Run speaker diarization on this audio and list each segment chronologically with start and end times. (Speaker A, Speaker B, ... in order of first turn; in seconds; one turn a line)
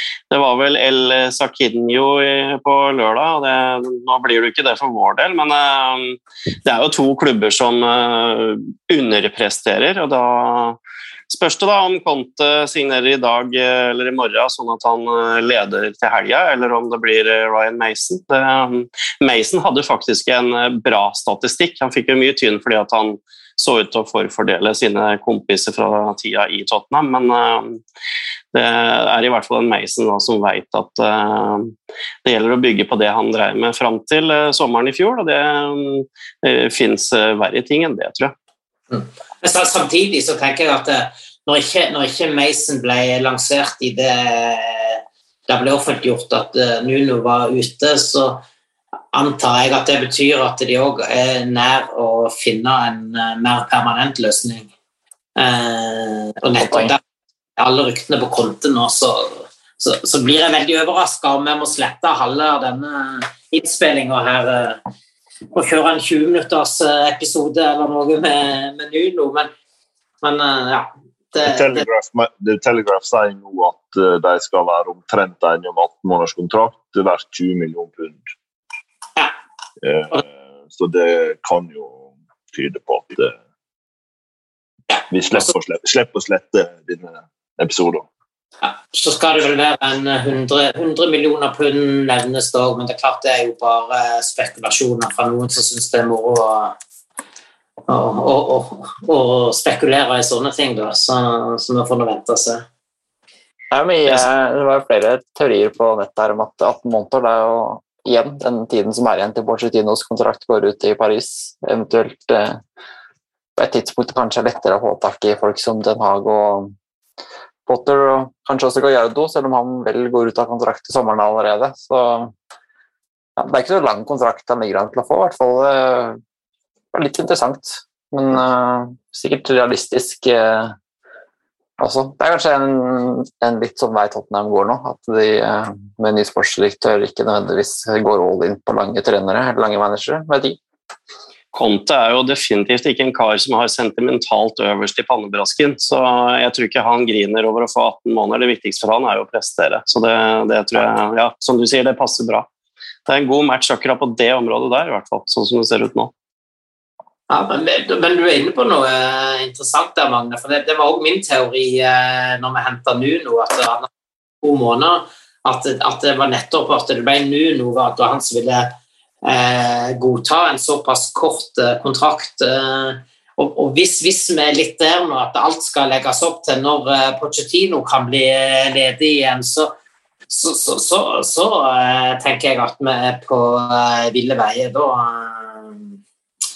Speaker A: 0.3-10.8
Speaker A: 11.3-27.8
Speaker A: 28.5-38.3
Speaker B: 38.9-48.4
Speaker B: 49.1-54.7
Speaker B: 55.4-57.0
Speaker C: 56.6-56.9
Speaker B: 57.6-64.8
Speaker B: 65.5-69.5
Speaker B: 70.2-71.8
Speaker D: 71.5-78.2
Speaker D: 79.8-83.4
Speaker B: 84.9-85.4
Speaker D: 85.1-88.1
Speaker B: 88.6-96.8
Speaker B: 97.9-102.7
Speaker C: 103.7-112.6
Speaker C: 113.6-116.7
Speaker C: 117.7-122.3
Speaker C: 123.4-126.2
Speaker C: 126.9-130.8
Speaker C: 131.8-140.6
Speaker A: 141.5-152.5
Speaker A: 153.1-156.1
Speaker B: 157.3-163.9
Speaker B: 164.4-168.7
Speaker B: 169.2-179.7
Speaker B: 180.3-186.0